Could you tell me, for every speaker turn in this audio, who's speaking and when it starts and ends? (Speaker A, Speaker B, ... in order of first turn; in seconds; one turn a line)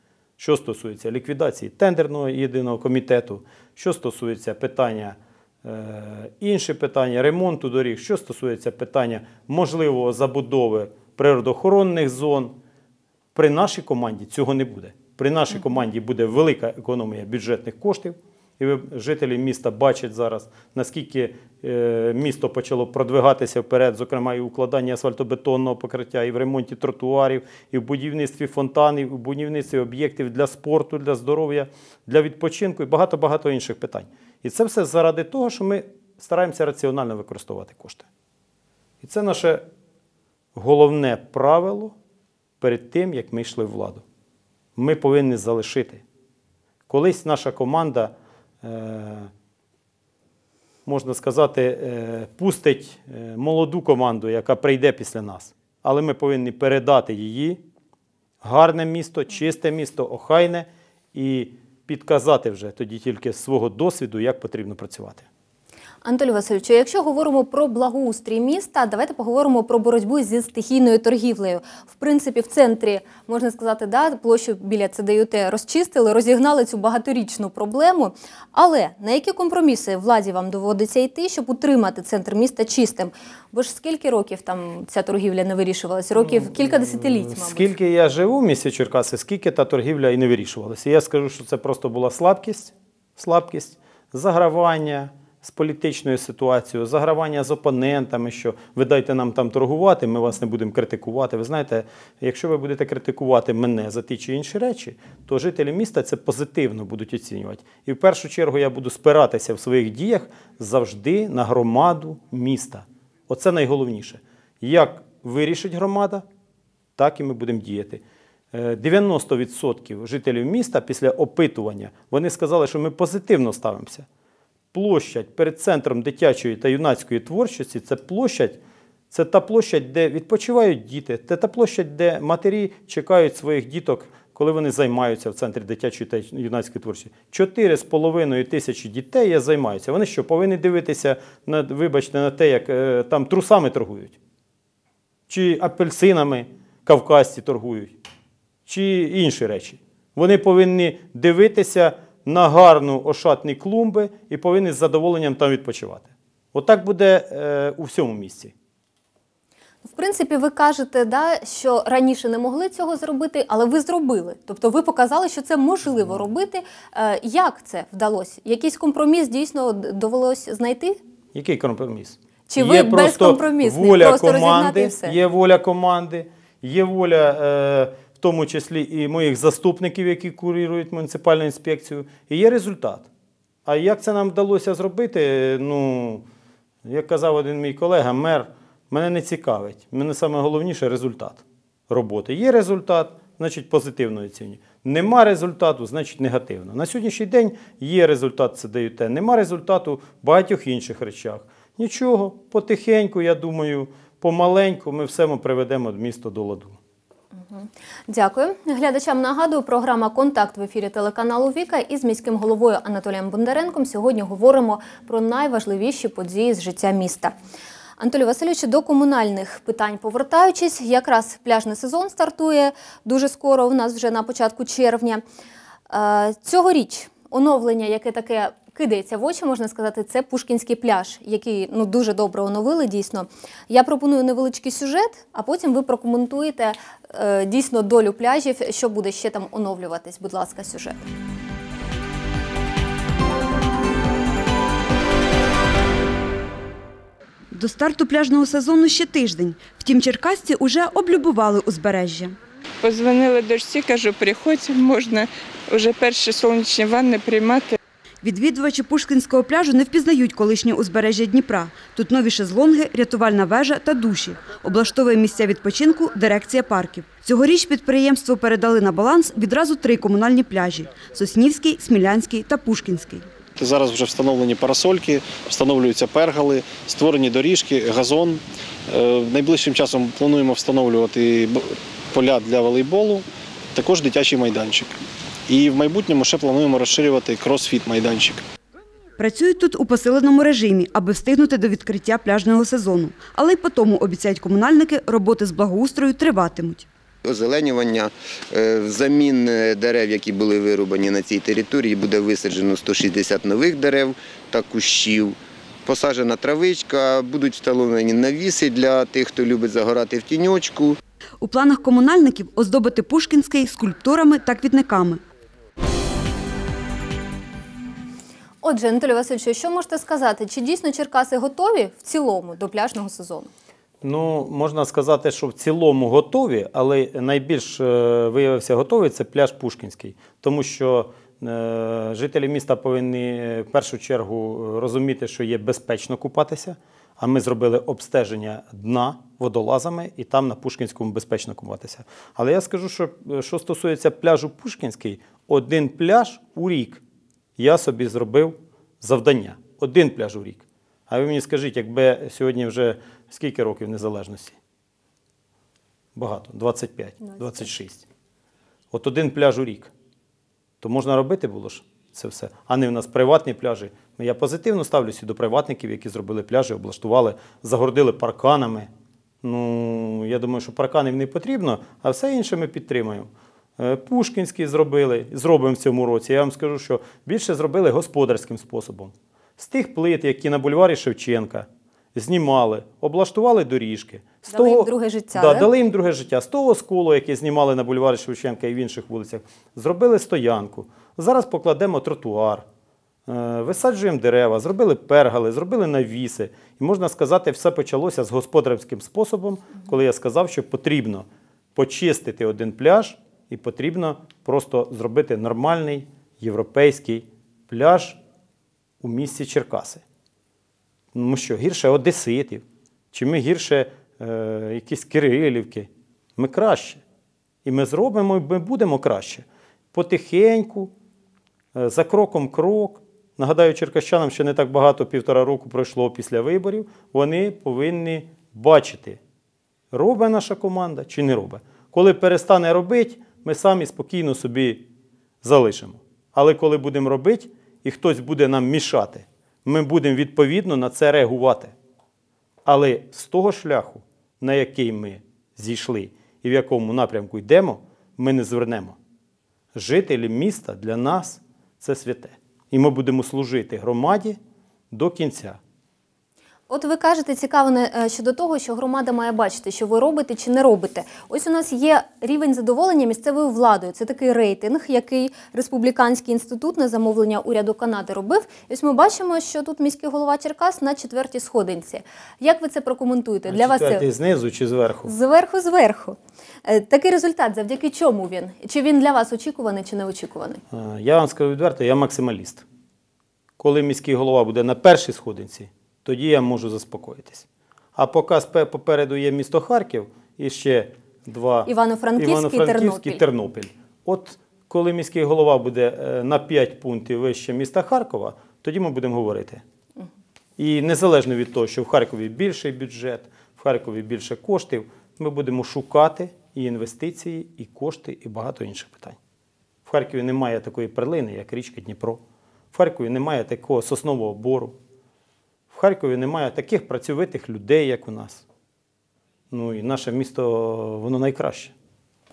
Speaker A: 0.4-12.6
Speaker A: 13.3-38.0
Speaker A: 39.0-39.6
Speaker A: 40.5-41.9
Speaker A: 42.6-44.0
Speaker A: 44.8-46.0
Speaker A: 46.9-49.3
Speaker A: 50.9-57.6
Speaker A: 58.4-65.2
Speaker B: 66.0-87.7
Speaker A: 86.2-116.2
Speaker A: 117.0-124.0
Speaker A: 124.7-144.2
Speaker A: 145.3-148.0
Speaker A: 148.7-158.5
Speaker B: 159.8-171.0
Speaker A: 171.3-183.1
Speaker B: 172.5-175.2
Speaker A: 183.7-186.2
Speaker A: 186.8-206.8
Speaker B: 207.5-217.3
Speaker B: 218.0-225.2
Speaker B: 225.9-241.0
Speaker C: 247.5-252.3
Speaker D: 252.8-257.7
Speaker C: 258.2-273.3
Speaker E: 273.6-284.9
Speaker E: 285.5-288.4
Speaker C: 289.2-296.9
Speaker F: 297.2-310.9
Speaker C: 311.4-315.2
Speaker B: 318.6-323.5
Speaker A: 324.0-347.0
Speaker A: 347.6-354.6
Speaker A: 356.1-358.0
Speaker A: 358.9-359.9
Speaker A: 360.8-368.9
Speaker A: 369.4-392.6
Speaker B: 384.5-385.7
Speaker A: 393.3-408.2
Speaker A: 409.0-410.0
Speaker A: 411.1-417.0
Speaker A: 417.6-420.9
Speaker A: 421.7-429.2
Speaker A: 429.9-434.9
Speaker A: 435.4-441.7
Speaker A: 442.6-449.0
Speaker A: 449.7-454.4
Speaker A: 454.9-455.6
Speaker B: 456.7-474.0
Speaker A: 473.5-475.1
Speaker B: 475.1-480.6
Speaker A: 480.7-482.6
Speaker A: 483.6-499.6
Speaker B: 491.6-493.2
Speaker A: 500.6-509.2
Speaker A: 509.9-512.2
Speaker A: 512.7-514.7
Speaker A: 515.7-518.4
Speaker A: 519.5-521.7